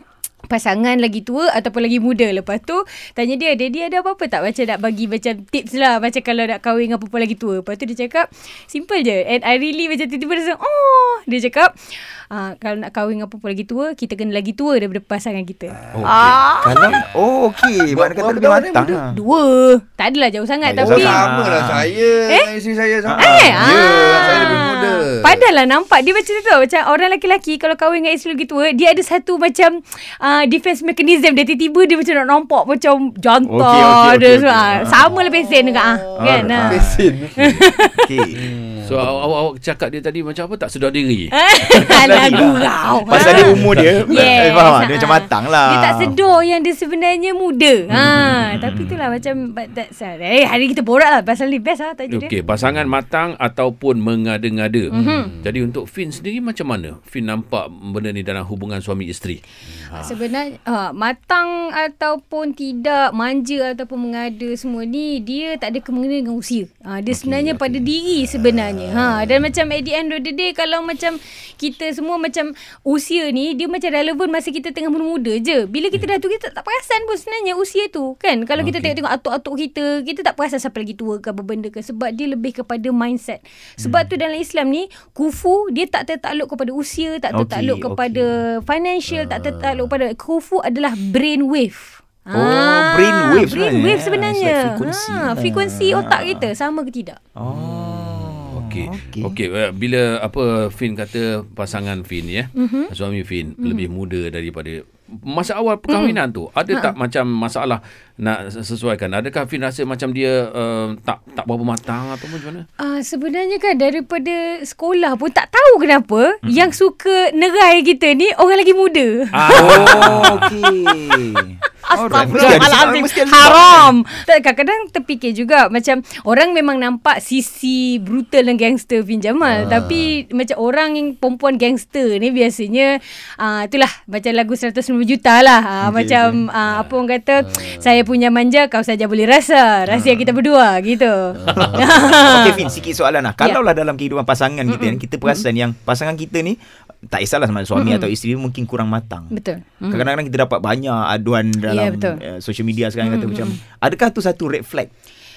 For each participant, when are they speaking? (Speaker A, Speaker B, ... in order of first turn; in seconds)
Speaker A: 0.5-17.0, 19.1-21.2, 23.2-38.1, 41.3-52.3, 54.9-55.4, 59.9-97.2, 102.6-102.9, 103.6-103.9, 105.9-106.2, 112.8-119.8, 120.9-142.7, 144.7-145.5, 147.7-148.1, 149.3-150.1, 151.7-152.2, 153.0-153.6
Speaker B: 15.9-16.2, 16.8-17.1, 17.9-19.0, 20.6-25.5, 35.0-37.6, 38.3-39.2, 55.0-55.4, 68.2-69.5, 89.1-90.0, 98.7-99.2, 122.1-122.7, 129.4-130.2, 137.4-138.0, 141.3-142.8
Speaker C: 15.9-16.4, 38.8-41.4, 43.1-44.4, 52.1-60.1, 97.5-98.0, 98.5-112.7, 119.3-120.5, 122.4-122.7, 136.6-136.9, 141.5-141.8
Speaker D: 16.1-19.2, 20.8-21.9, 23.1-24.6, 33.5-35.0, 36.2-37.1, 38.0-38.5, 41.7-46.2, 47.9-48.9, 67.1-67.9, 87.3-88.3, 92.3-96.5, 97.4-99.3, 119.5-123.9, 135.8-136.4, 141.6-149.3, 149.9-154.9